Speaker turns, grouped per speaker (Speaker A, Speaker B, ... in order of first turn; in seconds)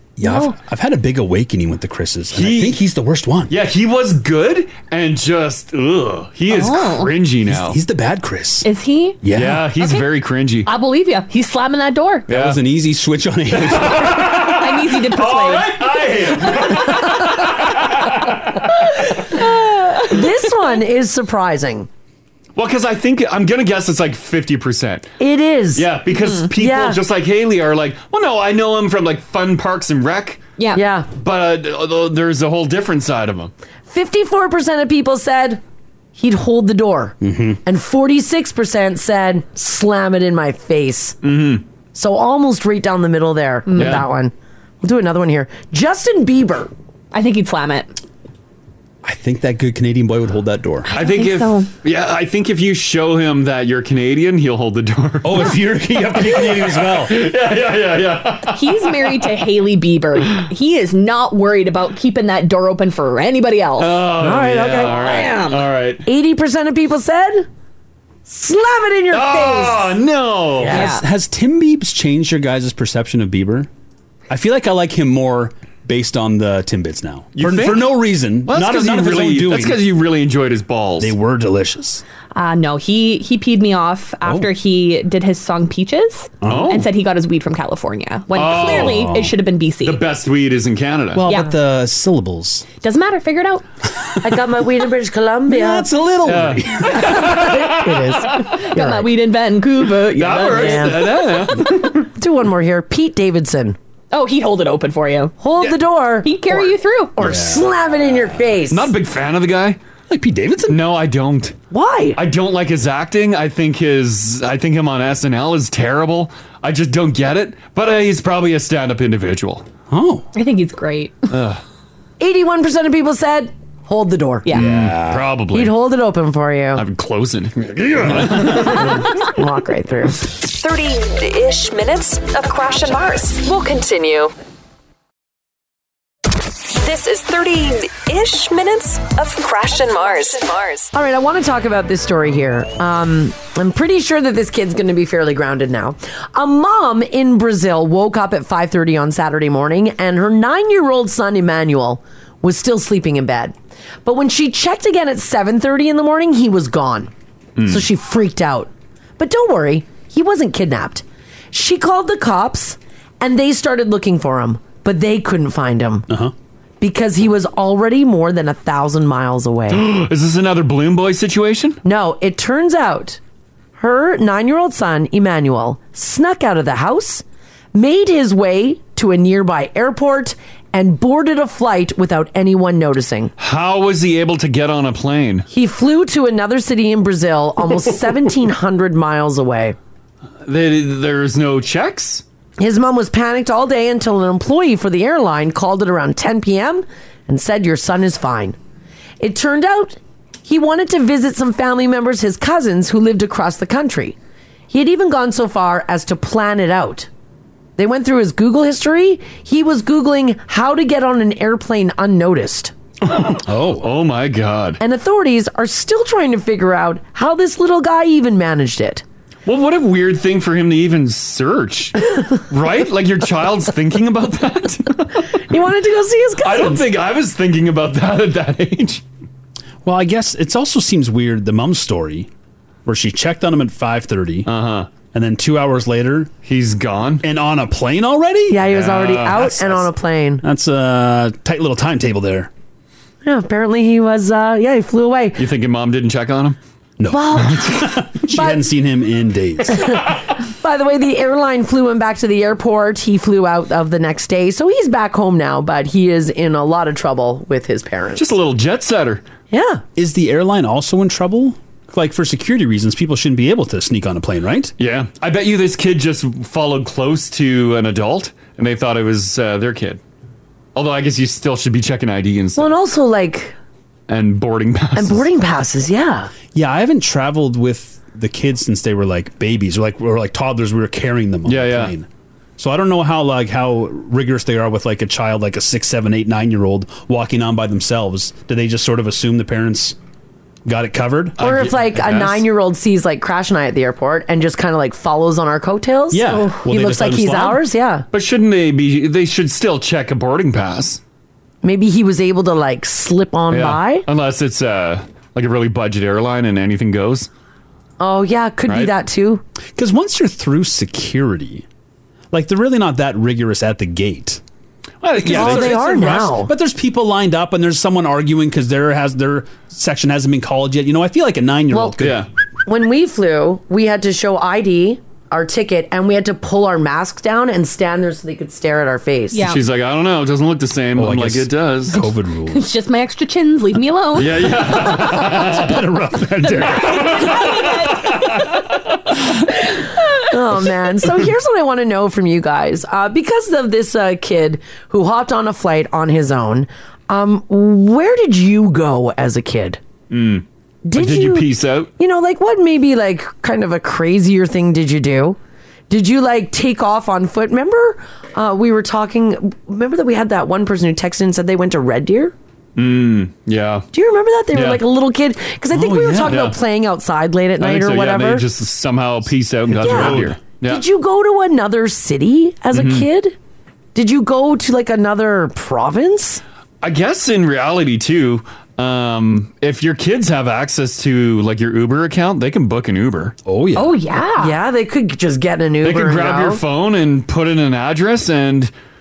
Speaker A: 0.2-3.5, 7.5-8.7, 9.2-9.7, 12.3-14.4, 37.2-37.6, 49.0-50.9, 55.2-57.2, 70.7-73.7, 74.3-79.8, 81.0-82.0, 84.2-84.5, 86.4-86.8, 88.6-89.3, 91.1-92.7, 95.5-97.3, 107.2-107.7, 110.1-110.8, 119.9-120.3, 124.5-125.3, 128.0-128.8, 166.1-166.3, 213.4-213.9, 229.8-232.3, 232.8-234.5, 235.1-236.3, 237.2-239.9, 240.4-242.5, 247.0-250.0, 259.9-264.7, 276.5-282.1, 282.6-290.0, 290.6-291.4, 296.1-297.6, 309.8-311.6, 312.3-314.4, 315.2-322.2, 330.9-332.7, 334.6-337.4, 365.7-366.5, 369.8-370.4, 383.4-384.0
Speaker B: 0.2-0.5, 6.5-7.1, 8.6-9.2, 10.7-12.3, 14.4-15.8, 19.2-20.3, 43.7-44.0, 47.1-47.9, 50.9-51.7, 58.5-64.0, 64.8-65.6, 70.7-71.0, 82.3-90.0, 91.2-91.5, 92.8-93.6, 98.5-101.0, 104.1-105.3, 106.2-107.1, 120.3-121.2, 124.4-124.7, 329.3-329.6, 332.5-334.5, 336.4-338.5, 383.8-384.6
Speaker C: 2.3-2.8, 3.5-7.8, 9.3-10.7, 12.3-12.6, 13.5-18.7, 22.6-25.1, 25.7-30.4, 31.1-33.5, 41.2-41.6, 43.8-44.0, 50.9-55.5, 56.2-59.2, 63.8-66.0, 69.1-70.8, 77.3-81.1, 86.5-86.9, 88.3-89.1, 89.8-91.2, 96.2-98.4, 100.1-102.1, 108.7-109.8, 110.7-111.5, 112.2-119.7, 121.3-121.6, 124.5-125.7, 126.7-129.0, 157.6-157.8, 169.7-171.8, 183.4-185.5, 190.4-192.2, 213.0-214.8, 219.4-225.4, 226.4-229.0, 234.4-234.9, 236.4-237.2, 238.7-239.4, 245.4-246.6, 258.1-259.2, 264.8-270.0, 270.7-272.7, 274.1-275.3, 281.4-281.9, 291.4-292.4, 298.1-301.0, 303.5-307.3, 315.0-315.9, 322.0-322.3, 329.4-332.0, 334.1-335.8, 336.8-338.2, 350.1-351.9, 362.8-363.9, 364.5-364.8, 366.3-366.6, 367.6-370.8, 372.7-373.1, 376.8-383.4, 385.8-388.7
Speaker D: 20.1-21.9, 25.2-25.9, 26.5-27.0, 30.7-31.1, 33.9-35.6, 36.1-41.2, 41.9-46.7, 64.2-64.9, 66.0-67.5, 68.2-69.9, 70.6-70.9, 94.2-95.9, 97.0-99.1, 100.5-101.1, 102.1-103.8, 105.4-108.9, 111.7-112.2, 122.2-124.5, 125.5-126.8, 129.2-130.2, 140.9-157.1, 157.6-166.1, 166.8-169.9, 171.8-173.2, 173.8-183.3, 185.5-189.8, 192.6-198.6, 199.2-204.2, 204.7-207.1, 207.8-212.7, 214.8-219.0, 225.5-226.8, 238.5-240.4, 243.2-245.4, 247.1-247.7, 248.3-248.6, 249.7-258.3, 259.5-259.8, 272.6-273.5, 274.9-276.3, 291.4-298.0, 301.6-304.1, 308.0-309.4, 315.3-316.5, 321.7-321.9, 322.6-329.4, 340.3-349.8, 350.9-351.5, 352.0-355.4, 355.9-362.3, 363.9-368.4, 369.8-373.4, 373.9-376.4, 384.4-386.6
Speaker E: 130.4-134.3, 136.7-140.9